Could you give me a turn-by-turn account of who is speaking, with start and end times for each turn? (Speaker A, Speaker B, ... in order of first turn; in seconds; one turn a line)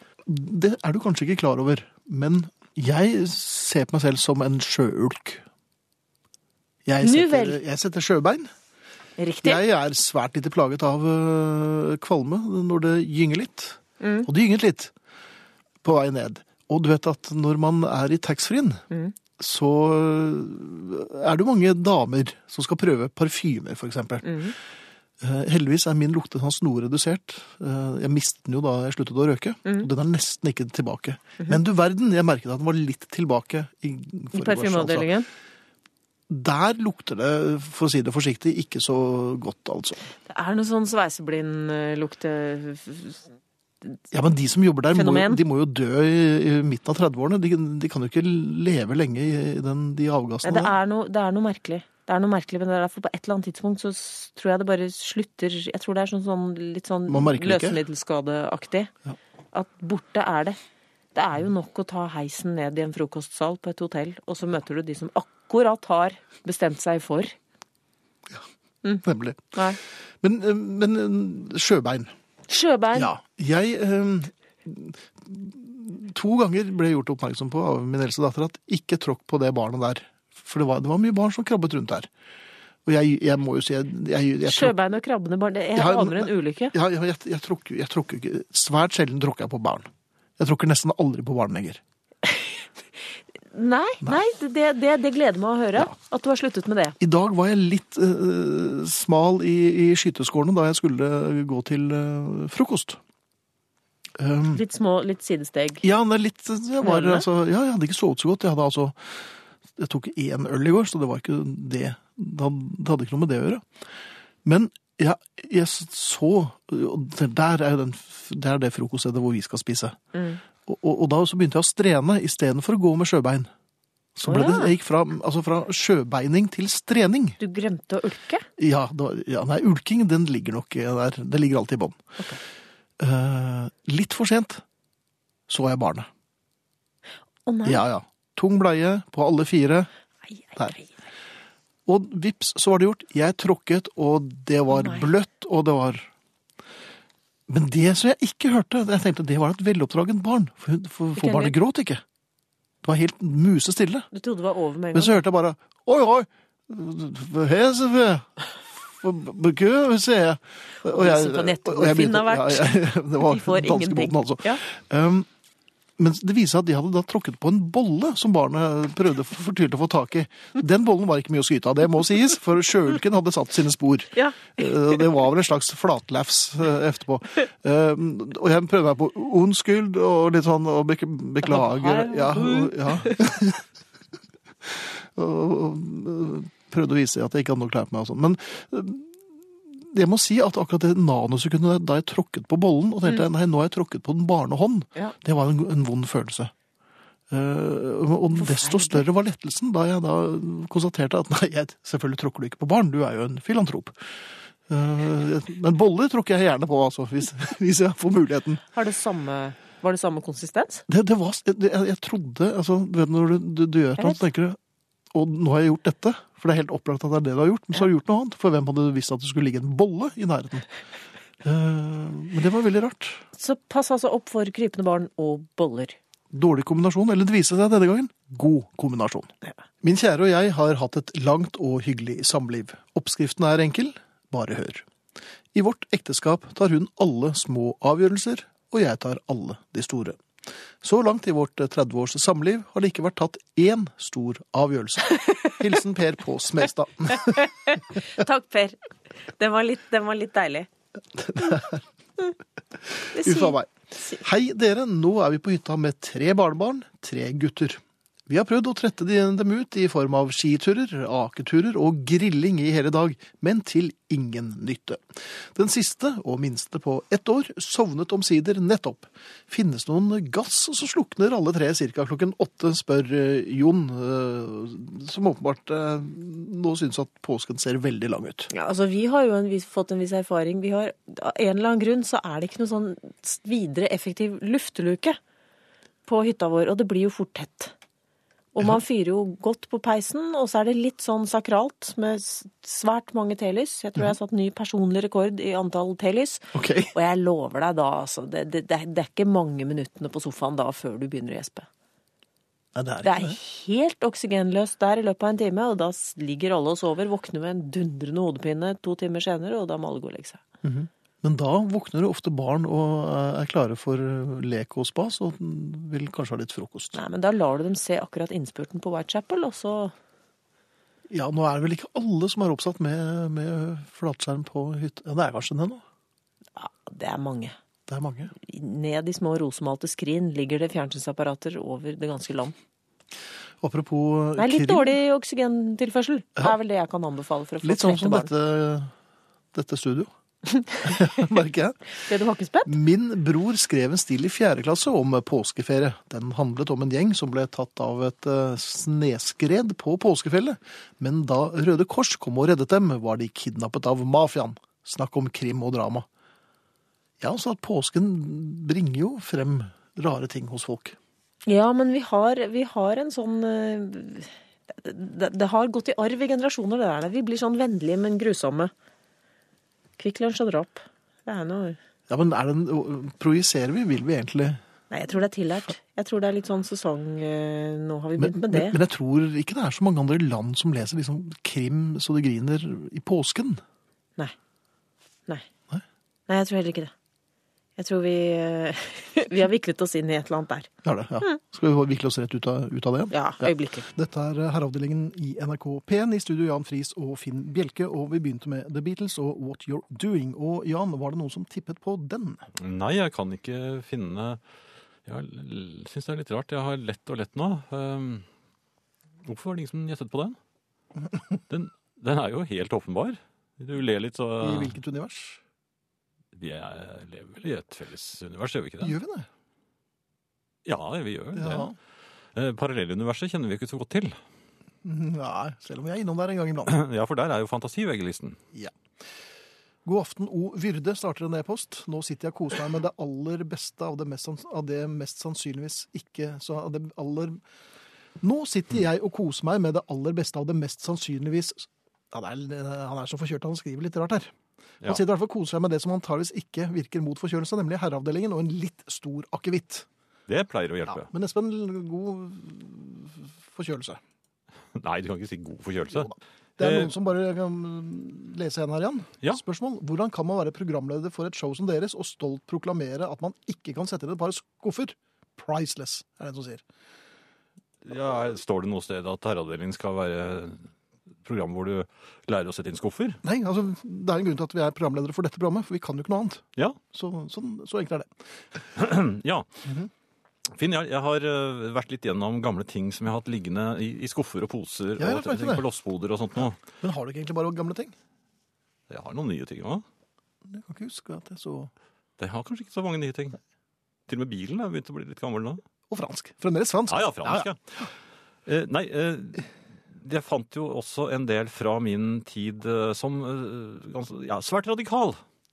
Speaker A: 0.2-5.4
Speaker A: 6.9-8.5
Speaker B: 7.0-7.6
Speaker B: 9.2-9.6
Speaker A: 9.4-14.9
Speaker B: 14.0-14.3
Speaker A: 15.8-18.8
Speaker A: 19.4-24.5
Speaker B: 24.2-24.5
Speaker A: 25.2-35.1
Speaker B: 34.3-35.3
Speaker A: 36.3-40.0
Speaker B: 40.3-43.2
Speaker A: 44.1-50.8
Speaker B: 44.9-45.4
Speaker B: 50.4-58.9
Speaker A: 57.1-57.8
Speaker B: 59.5-60.6
Speaker B: 61.1-67.3
Speaker B: 68.8-69.8
Speaker A: 69.0-69.6
Speaker A: 70.2-72.1
Speaker B: 72.5-73.1
Speaker A: 72.9-82.1
Speaker A: 82.8-84.8
Speaker B: 84.4-86.8
Speaker A: 85.8-91.8
Speaker B: 93.5-97.0
Speaker A: 97.0-103.0
Speaker A: 104.2-104.6
Speaker B: 104.5-105.8
Speaker A: 105.8-109.2
Speaker B: 106.8-107.3
Speaker A: 109.8-113.7
Speaker A: 114.5-120.0
Speaker B: 120.1-120.4
Speaker A: 120.7-123.5
Speaker A: 124.2-127.4
Speaker B: 124.3-124.7
Speaker B: 127.4-128.5
Speaker A: 128.6-132.0
Speaker A: 133.0-134.6
Speaker A: 135.5-136.1
Speaker B: 137.5-137.8
Speaker A: 137.7-139.9
Speaker B: 140.5-140.9
Speaker A: 141.9-146.1
Speaker B: 144.7-145.1
Speaker A: 147.5-152.0
Speaker B: 151.2-151.6
Speaker A: 152.8-154.1
Speaker B: 154.1-155.2
Speaker A: 154.9-165.3
Speaker B: 160.8-164.6
Speaker A: 166.0-183.7
Speaker B: 174.2-174.5
Speaker B: 181.4-183.2
Speaker A: 184.6-189.2
Speaker A: 189.7-196.5
Speaker A: 197.3-204.0
Speaker B: 198.3-199.1
Speaker A: 204.7-208.6
Speaker B: 208.7-210.8
Speaker A: 210.9-214.6
Speaker A: 215.1-220.7
Speaker A: 221.4-223.2
Speaker B: 223.4-226.0
Speaker A: 226.3-229.3
Speaker A: 229.8-234.8
Speaker A: 235.5-240.2
Speaker A: 240.8-247.4
Speaker B: 247.2-248.8
Speaker B: 249.4-250.7
Speaker A: 251.1-251.8
Speaker A: 253.0-278.5
Speaker B: 253.1-254.2
Speaker B: 278.5-285.2
Speaker B: 286.1-287.7
Speaker B: 288.6-301.7
Speaker A: 296.5-296.9
Speaker A: 302.8-303.4
Speaker B: 303.0-310.4
Speaker A: 310.6-317.0
Speaker B: 316.9-319.9
Speaker A: 321.1-325.8
Speaker B: 326.6-327.6
Speaker A: 327.9-328.3
Speaker B: 328.4-332.5
Speaker A: 333.6-335.0
Speaker B: 334.4-338.3
Speaker A: 337.6-338.9
Speaker A: 339.5-340.1
Speaker A: 340.8-341.8
Speaker B: 341.9-342.8
Speaker A: 342.7-356.1
Speaker A: 357.2-361.0
Speaker B: 361.5-368.7
Speaker B: 370.0-371.8
Speaker A: 372.1-374.6
Speaker B: 374.9-378.8
Speaker A: 378.2-383.6
Speaker B: 386.3-386.9
Speaker B: 387.8-390.7
Speaker A: 390.8-402.4
Speaker B: 393.1-393.9
Speaker C: 402.6-404.4
Speaker C: 405.1-408.3
Speaker C: 409.2-410.4
Speaker C: 411.5-414.8
Speaker A: 414.4-415.4
Speaker C: 416.4-419.0
Speaker A: 418.8-419.3
Speaker C: 420.7-421.7
Speaker A: 421.4-421.8
Speaker C: 422.4-424.2
Speaker A: 424.8-426.8
Speaker C: 426.7-428.4
Speaker A: 429.9-437.4
Speaker A: 438.2-449.9
Speaker C: 450.3-451.1
Speaker A: 450.9-454.0
Speaker C: 454.8-456.9
Speaker A: 455.9-466.6
Speaker C: 467.9-470.6
Speaker C: 471.2-473.2
Speaker A: 473.2-478.1
Speaker C: 478.8-479.5
Speaker A: 479.6-479.9
Speaker C: 480.6-486.6
Speaker A: 485.0-485.7
Speaker A: 486.4-487.9
Speaker C: 488.9-489.8
Speaker A: 490.5-491.7
Speaker C: 492.2-493.4
Speaker C: 494.1-495.6
Speaker A: 495.9-497.5
Speaker C: 496.9-497.9
Speaker C: 498.5-505.2